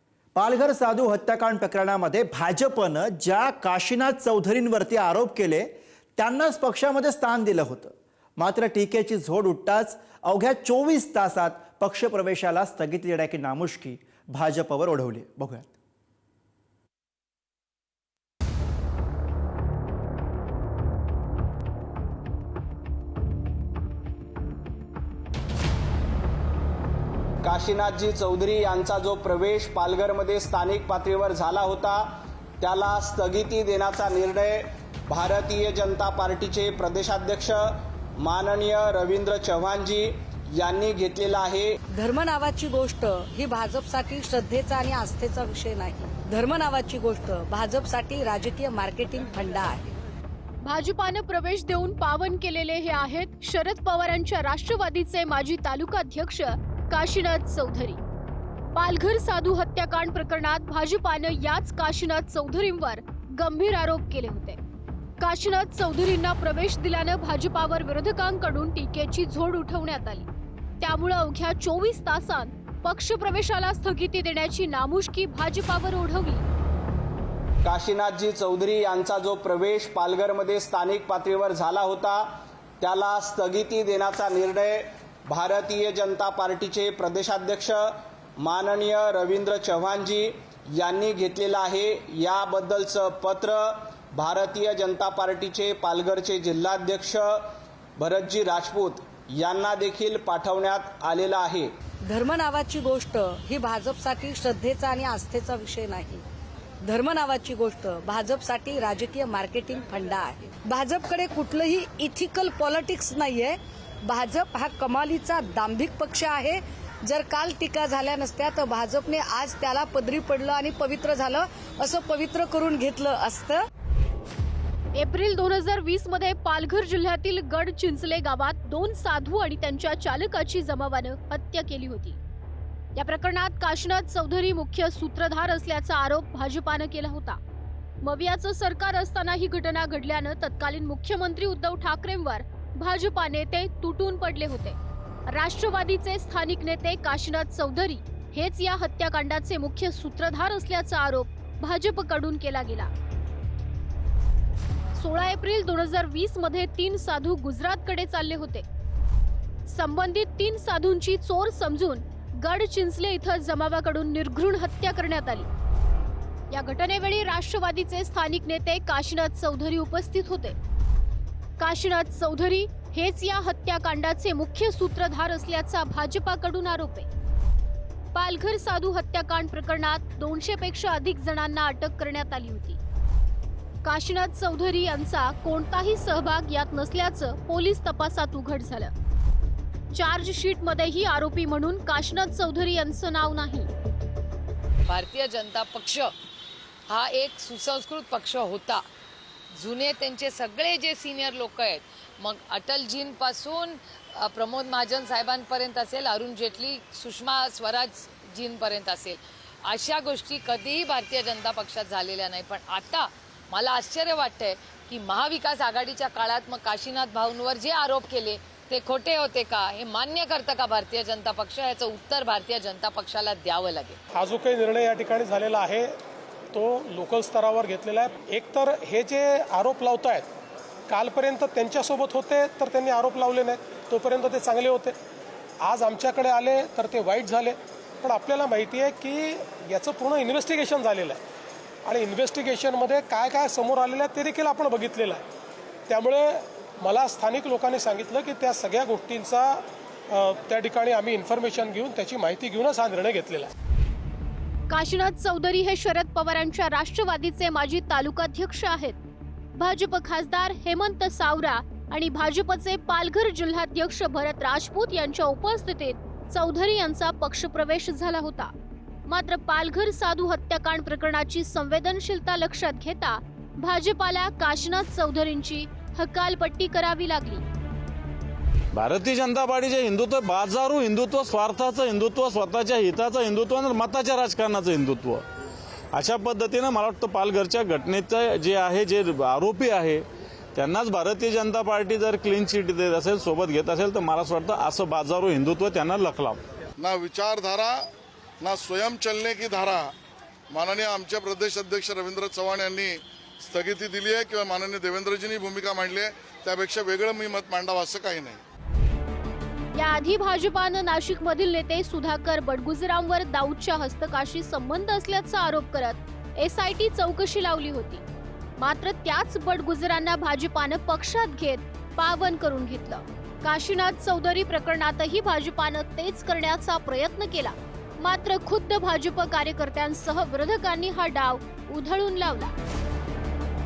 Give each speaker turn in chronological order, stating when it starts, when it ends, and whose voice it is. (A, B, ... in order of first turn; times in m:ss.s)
0:00.4-0:15.7 A
0:27.4-0:32.1 B
0:32.6-0:41.7 B
0:41.9-0:49.9 C
0:50.6-0:58.0 D
0:58.7-1:04.6 D
1:05.2-1:10.3 D
1:10.8-1:16.4 D
1:17.6-1:22.3 B
1:22.8-1:37.4 B
1:38.0-1:41.7 B
1:42.1-1:46.2 C
1:46.8-2:03.6 C
2:04.9-2:12.2 D
2:12.9-2:17.4 D
2:18.0-2:24.8 D
2:25.3-2:32.9 D
2:34.9-2:38.6 D
2:39.7-2:45.5 D
2:46.5-2:50.6 D
2:51.6-2:57.1 D
2:58.1-3:02.8 D
3:03.8-3:08.9 D
3:09.9-3:13.7 D
3:14.9-3:16.1 E
3:16.9-3:18.8 E
3:19.6-3:44.0 E
3:44.1-3:46.0 F
3:46.5-3:50.3 F
3:50.9-3:55.0 F
3:55.6-4:01.2 F
4:01.8-4:05.2 F
4:05.9-4:13.5 F
4:14.7-4:19.0 D
4:19.6-4:28.5 D
4:29.1-4:37.4 D
4:38.7-4:45.2 G
4:45.9-4:56.4 G
4:56.8-4:57.9 H
4:58.4-4:59.9 H
5:00.5-5:08.4 H
5:09.7-5:18.0 D
5:18.6-5:32.5 D